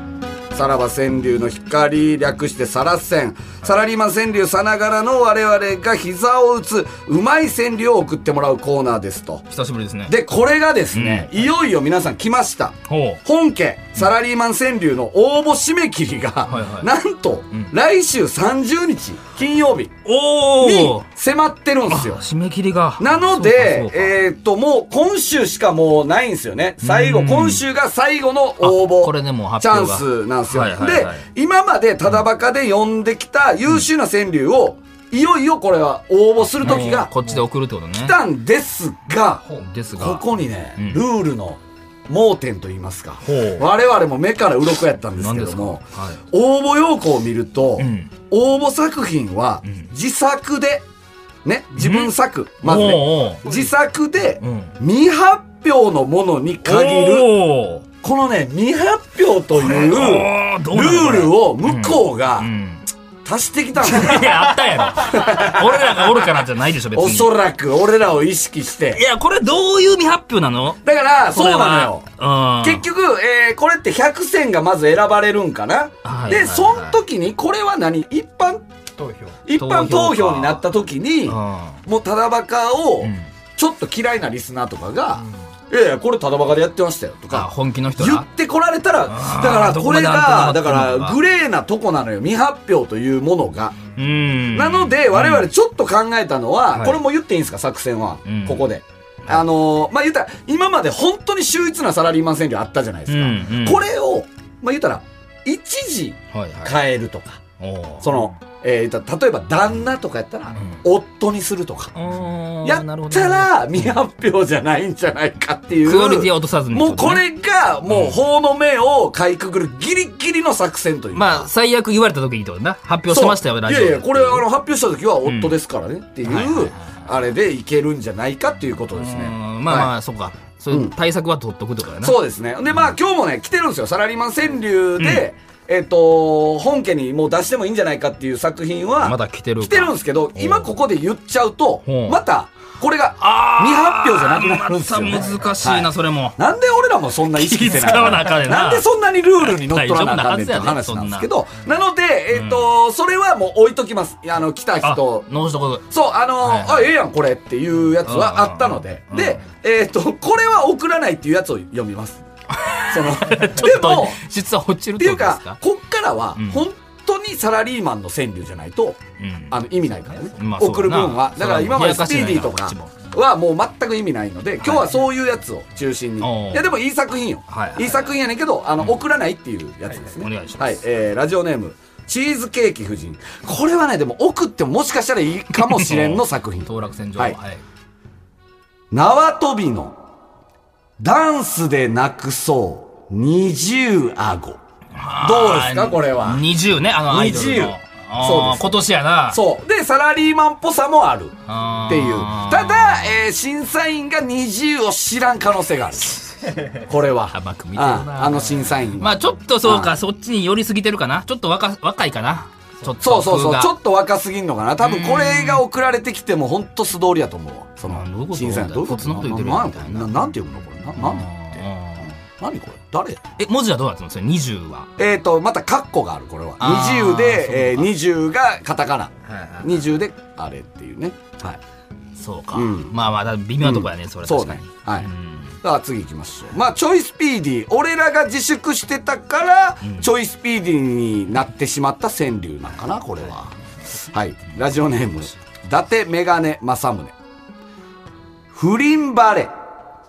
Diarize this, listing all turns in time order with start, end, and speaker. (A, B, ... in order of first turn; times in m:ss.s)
0:00.5-0:09.4 A
0:09.5-0:10.2 B
0:10.1-0:19.9 A
0:10.9-0:11.4 B
0:12.9-0:13.2 B
0:16.5-0:16.9 B
0:20.0-0:21.1 B
0:20.6-0:22.2 A
0:21.9-0:24.2 B
0:23.0-0:37.1 A
0:26.8-0:27.6 B
0:28.6-0:31.3 B
0:36.4-0:38.2 B
0:38.0-0:50.8 A
0:39.6-0:41.0 B
0:43.2-0:43.7 B
0:45.2-0:46.2 B
0:47.8-0:48.1 B
0:51.4-0:57.4 A
0:51.8-0:53.5 B
0:54.4-0:54.8 B
0:56.6-0:57.9 B
0:58.0-1:02.5 A
0:59.6-1:02.9 B
1:03.2-1:06.2 A
1:03.8-1:07.4 B
1:06.9-1:09.0 A
1:08.9-1:12.8 B
1:10.8-1:12.1 A
1:12.6-1:18.7 A
1:16.0-1:17.0 B
1:19.0-1:19.4 C
1:19.4-1:33.8 A
1:19.6-1:20.6 B
1:21.3-1:21.8 B
1:23.0-1:23.3 B
1:27.3-1:28.3 B
1:29.1-1:31.2 B
1:34.0-1:35.5 B
1:34.5-1:47.4 A
1:36.7-1:37.0 B
1:38.2-1:38.7 B
1:43.1-1:43.8 B
1:46.3-1:46.8 B
1:47.6-1:48.3 B
1:48.0-1:51.9 A
1:50.6-1:50.8 B
1:52.0-1:53.9 B
1:52.6-2:01.5 A
1:55.8-1:57.2 B
1:57.9-1:58.2 B
2:01.1-2:04.5 B
2:03.1-2:09.9 A
2:05.2-2:05.6 B
2:06.2-2:07.1 B
2:09.0-2:12.2 B
2:12.0-2:35.3 A
2:15.0-2:15.2 B
2:19.0-2:20.7 B
2:21.9-2:22.2 B
2:23.2-2:26.4 B
2:25.1-2:25.7 C
2:27.3-2:28.9 B
2:29.4-2:31.3 B
2:32.3-2:32.7 B
2:34.8-2:35.9 B
2:35.9-2:42.2 A
2:36.4-2:36.9 B
2:38.0-2:39.4 B
2:42.5-2:45.6 B
2:42.9-2:44.2 A
2:45.0-2:49.0 A
2:46.4-2:46.6 B
2:49.2-2:49.6 B
2:49.5-3:07.4 A
2:50.0-2:50.3 C
2:50.4-2:52.9 B
2:54.6-2:54.9 B
2:56.2-2:56.7 B
2:57.5-2:58.1 B
2:59.9-3:00.2 C
3:00.2-3:00.8 B
3:05.5-3:07.6 B
3:08.9-3:10.0 A
3:11.0-3:14.6 A
3:15.0-3:19.4 B
3:15.2-3:16.5 A
3:17.1-3:21.4 A
3:21.5-3:23.1 B
3:21.9-3:26.2 A
3:26.5-3:26.8 C
3:26.9-3:30.0 A
3:27.3-3:28.4 B
3:28.2-3:28.6 C
3:29.0-3:33.7 B
3:33.0-3:41.6 A
3:34.8-3:35.6 B
3:37.8-3:40.2 B
3:40.9-3:42.2 B
3:42.2-3:43.2 A
3:43.4-3:44.9 B
3:45.0-3:51.6 A
3:46.6-3:47.9 B
3:49.3-3:49.7 B
3:52.2-3:55.5 B
3:52.5-3:53.0 A
3:53.6-3:55.1 A
3:55.6-4:07.1 A
3:59.8-4:00.1 B
4:08.5-4:09.5 A